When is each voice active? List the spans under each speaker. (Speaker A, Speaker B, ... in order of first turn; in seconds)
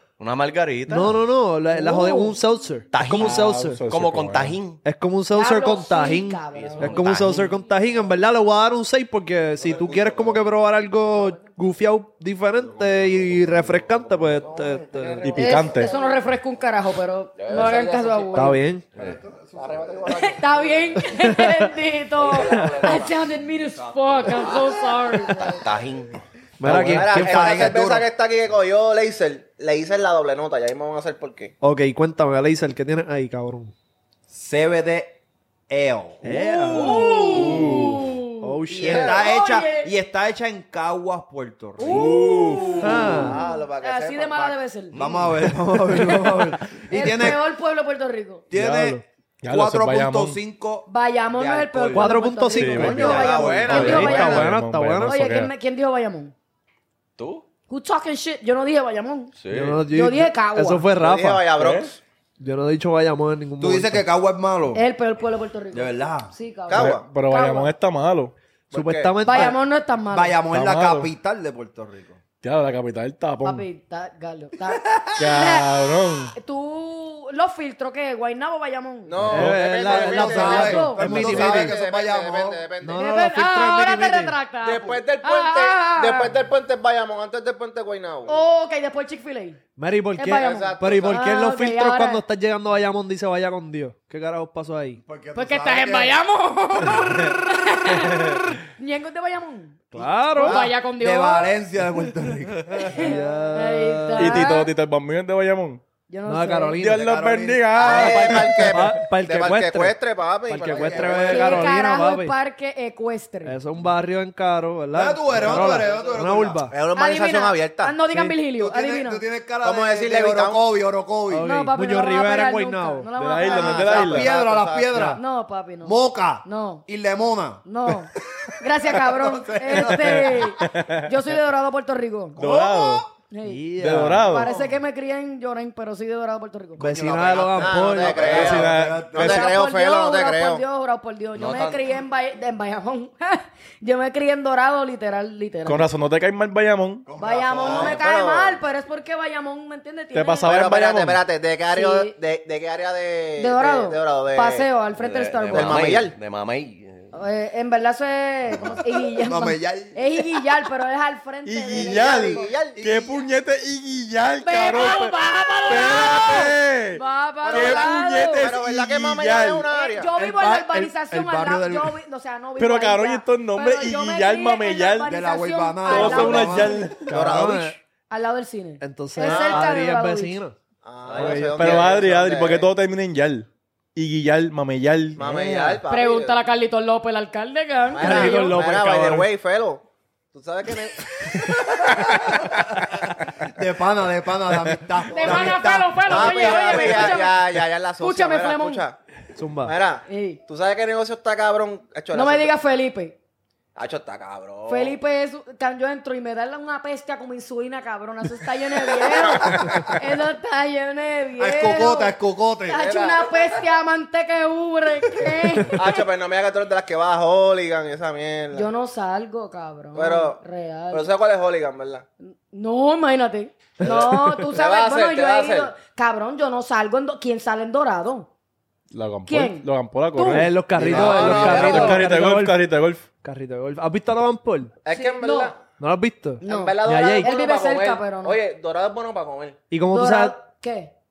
Speaker A: 0.2-1.2, 2.9-4.8, 6.5-7.5, 17.4-17.8, 18.9-19.2, 22.2-23.2, 23.9-24.6, 25.3-27.0, 53.2-53.9, 57.2-57.5, 59.4-59.8, 141.3-141.9, 155.0-157.1
Speaker B: 0.9-3.8, 4.8-15.3, 18.3-18.8, 21.2-21.7, 26.6-27.7, 31.6-33.7, 36.2-37.1, 38.4-39.2, 42.8-43.4, 45.0-46.9, 48.5-49.0, 51.9-55.2, 59.5-61.5, 62.4-64.0, 68.7-69.6, 79.3-81.7, 82.8-84.3, 89.8-95.0, 99.9-100.7, 102.9-104.5, 106.2-107.0, 108.5-112.3, 113.4-116.7, 118.1-118.3, 121.3-123.1, 133.4-134.3, 136.8-138.6, 170.2-171.8, 177.1-177.8, 178.8-180.5, 181.1-181.8, 185.5-185.8, 187.9-189.3, 199.3-199.7, 230.3-232.6, 233.2-234.7, 235.8-237.3, 239.7-240.3
Speaker C: 1.7-2.4, 5.3-7.0, 15.3-18.6, 20.1-25.6, 36.6-39.9, 41.8-45.0, 46.9-48.5, 50.9-54.5, 55.0-56.3, 57.7-59.3, 59.9-60.9, 64.7-67.7, 69.2-70.4, 73.4-79.2, 80.0-81.1, 83.0-86.3, 88.2-89.6, 90.2-92.2, 95.3-101.5, 102.8-104.7, 106.1-106.8, 111.1-113.6, 116.9-119.2, 121.4-124.1, 125.1-126.8, 127.6-132.5, 133.2-136.8, 139.2-145.9, 147.2-150.6, 151.7-152.1, 153.3-156.0, 157.1-162.5, 164.3-168.5, 169.7-177.0, 178.1-180.4, 185.9-188.7, 195.1-198.8, 200.1-200.4, 202.1-203.2, 204.7-212.2, 212.7-216.0, 218.5-221.1, 222.2-228.3, 229.3-232.0, 234.9-235.5, 236.4-238.4, 239.9-240.9
Speaker D: 3.0-4.6, 15.2-15.9, 37.4-38.0, 41.9-42.8, 49.4-50.4, 52.5-55.5, 61.6-61.9, 66.7-68.3, 70.4-71.1, 72.4-73.7, 75.2-76.3, 79.2-79.5, 104.2-105.8, 106.8-109.0, 123.1-124.3, 129.7-131.1, 132.3-133.1, 133.8-134.5, 138.3-139.5, 145.6-147.1, 150.1-151.2, 161.4-169.7, 172.6-175.2, 175.8-177.4, 181.2-185.2, 228.9-233.1
Speaker E: 9.6-10.5, 12.6-14.4, 18.9-20.2, 26.7-28.1, 34.3-35.2, 35.7-37.9, 38.7-43.2, 44.9-47.4, 48.5-52.1, 52.8-54.4, 63.6-64.8, 65.7-66.3, 70.1-72.2, 79.8-82.7, 95.0-96.2, 100.0-103.0, 106.8-108.4, 110.6-111.6, 114.9-116.7, 118.6-121.5, 123.8-125.2, 125.8-130.6, 132.4-133.1, 136.8-139.5, 147.1-148.0, 159.2-160.0, 162.8-163.2, 170.9-171.2, 175.1-176.9, 193.5-197.1, 211.4-212.9, 230.8-231.8
Speaker F: 14.4-16.2, 17.4-18.5, 19.6-21.1, 22.3-23.1, 26.7-31.5, 38.9-39.2, 42.5-44.6, 52.9-54.5, 61.0-62.0, 66.7-67.1, 68.7-69.5, 79.0-83.1, 84.6-88.4, 90.3-91.2, 107.7-111.7, 115.5-116.0, 116.7-117.9, 119.6-120.6, 123.4-125.2, 137.6-140.6, 147.2-148.6, 150.5-154.7, 155.5-156.2, 161.7-162.8, 167.5-170.1, 177.1-177.8, 179.2-179.7, 180.8-182.7, 185.2-186.4, 187.9-192.1, 195.1-199.0, 199.6-202.5, 203.8-205.0, 209.0-209.6, 212.7-213.5, 215.7-218.7, 219.9-222.1, 223.8-225.7, 230.8-232.1, 234.8-235.6, 236.4-239.6